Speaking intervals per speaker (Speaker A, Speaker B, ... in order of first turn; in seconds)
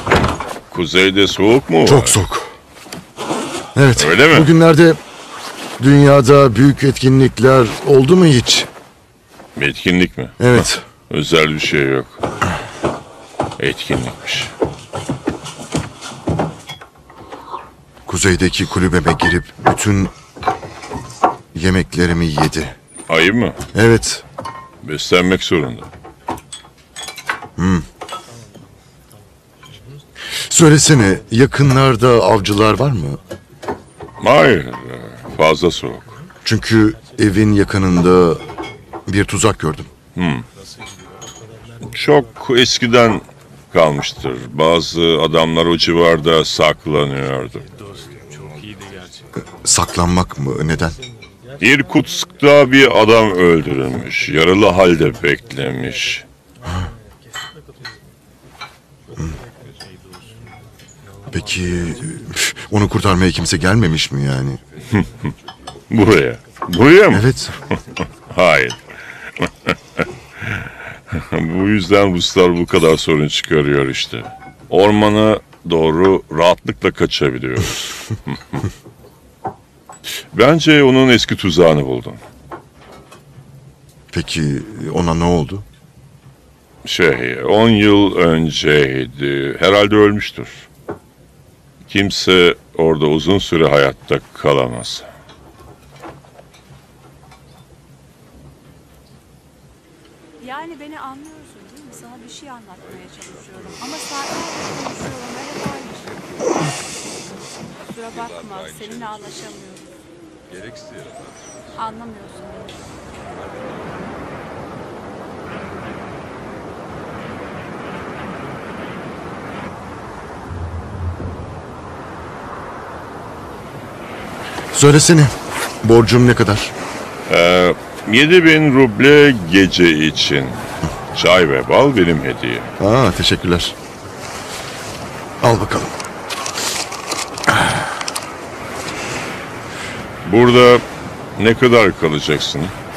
Speaker A: 0.7-2.2, 4.0-4.5, 9.6-12.2, 13.6-14.5, 23.1-23.6, 24.8-25.9, 34.2-36.2, 40.1-40.5, 41.9-47.8, 51.6-56.3, 65.9-67.3, 68.3-68.8, 71.1-78.7, 80.3-82.2, 86.8-90.7, 91.9-95.1, 127.3-130.6, 131.1-132.7, 140.2-140.8, 141.4-142.7
Speaker B: 1.9-2.5, 3.8-5.0, 5.8-8.7, 10.4-10.8, 18.1-20.1, 21.5-22.8, 23.7-24.2, 27.6-27.9, 30.4-33.2, 36.4-38.5, 39.1-39.9, 49.6-51.0, 61.3-64.6, 67.1-67.6, 84.1-85.7, 124.7-126.7, 132.8-133.8, 135.4-135.9, 137.5-137.8
Speaker C: 100.4-106.4, 107.9-109.9, 111.8-112.9